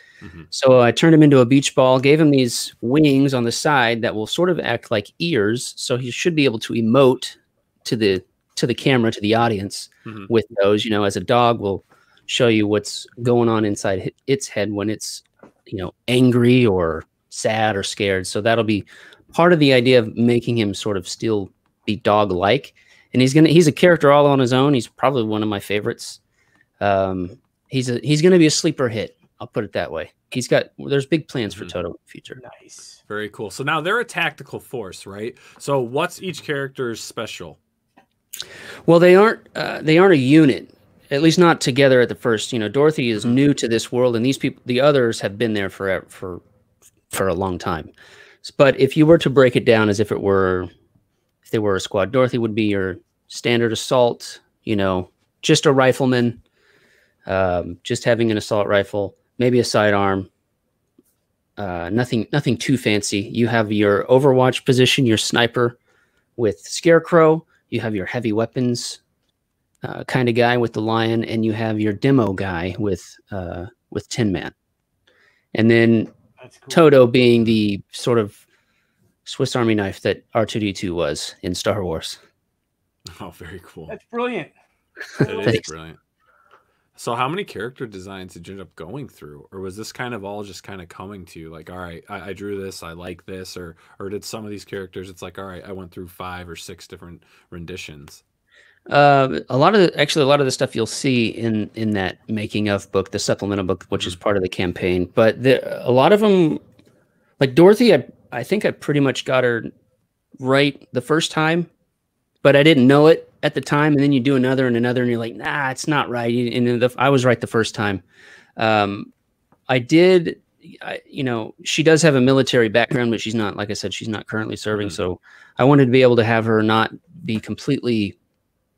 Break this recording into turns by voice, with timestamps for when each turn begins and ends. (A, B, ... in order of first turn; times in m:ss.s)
0:00.2-0:00.5 A
0:00.5-0:26.2 B
0:10.1-0:10.3 A
0:26.8-0:32.4 B
0:32.4-0:33.0 C
0:33.1-0:37.6 A
0:38.9-0:46.4 B
0:47.1-0:47.9 B
0:48.4-0:50.7 B
0:51.5-0:56.4 B
0:57.3-1:00.3 B
1:01.6-1:05.8 B
1:06.4-1:09.0 B
1:09.8-1:14.5 B
1:15.5-1:16.1 B
1:16.4-1:16.8 C
1:16.7-1:18.4 B
1:19.2-1:22.2 B
1:23.1-1:24.0 A
1:23.9-1:24.5 C
1:25.2-1:26.0 A
1:25.2-1:25.6 C
1:27.0-1:38.2 A
1:38.9-1:46.6 B
1:47.4-1:49.7 B
1:50.4-1:51.7 B
1:52.4-1:58.0 B
1:58.6-1:59.1 B
1:59.7-2:08.2 B